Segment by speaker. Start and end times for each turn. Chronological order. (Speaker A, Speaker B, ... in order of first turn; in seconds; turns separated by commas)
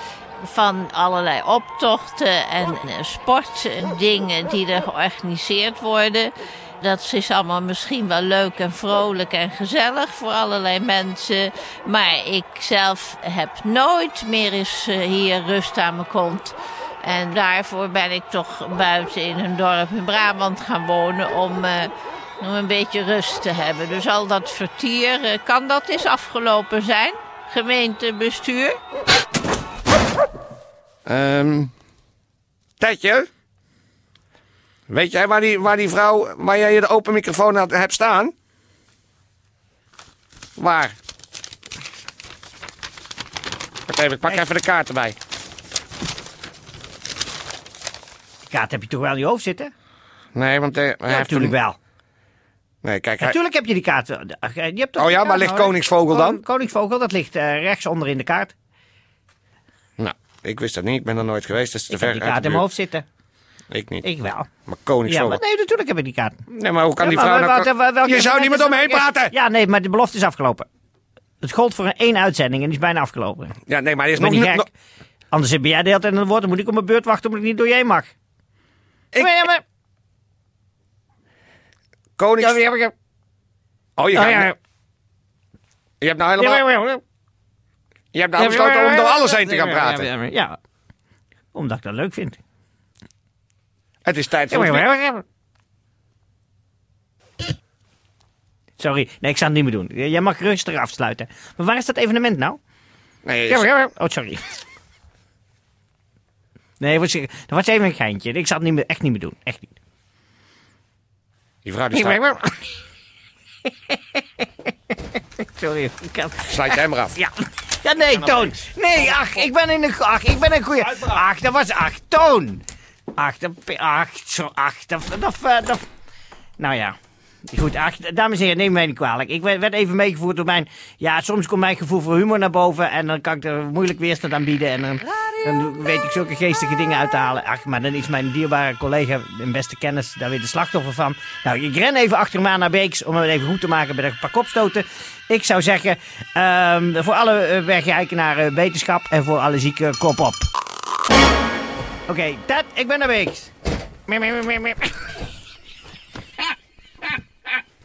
Speaker A: 0.4-28.8, Speaker B: 31.1-31.7, Speaker B: 32.8-33.3, Speaker B: 34.9-38.3, Speaker B: 40.6-41.0, Speaker B: 43.9-45.2, Speaker C: 48.5-49.7, Speaker B: 50.4-51.5, Speaker C: 51.1-51.8, Speaker B: 52.8-53.4, Speaker C: 53.2-58.5, Speaker B: 55.0-56.4, Speaker B: 60.0-62.6, Speaker C: 61.9-63.0, Speaker B: 63.7-64.0, Speaker C: 64.0-64.5, Speaker B: 64.7-65.4, Speaker C: 65.1-66.4, Speaker B: 66.5-69.3, Speaker C: 67.0-70.7, Speaker C: 71.4-73.6, Speaker B: 73.7-74.6, Speaker C: 74.2-74.7, Speaker C: 75.3-78.1, Speaker C: 79.2-79.6, Speaker B: 82.2-82.9, Speaker C: 82.4-82.9, Speaker B: 84.0-84.5, Speaker C: 84.1-84.5, Speaker B: 86.0-86.6, Speaker C: 86.4-87.0, Speaker B: 88.1-90.1, Speaker C: 88.4-90.6, Speaker C: 91.5-92.4, Speaker B: 94.0-94.9, Speaker C: 94.5-95.2, Speaker C: 98.8-102.6, Speaker B: 103.2-103.7, Speaker C: 103.5-104.4, Speaker C: 106.8-109.7, Speaker B: 111.7-112.4, Speaker C: 111.9-112.6, Speaker C: 113.9-114.2, Speaker C: 115.4-122.6, Speaker B: 116.5-117.1, Speaker B: 118.2-119.2, Speaker C: 123.2-125.8, Speaker C: 126.6-127.0, Speaker C: 127.5-150.5, Speaker C: 152.1-153.5, Speaker C: 154.1-154.9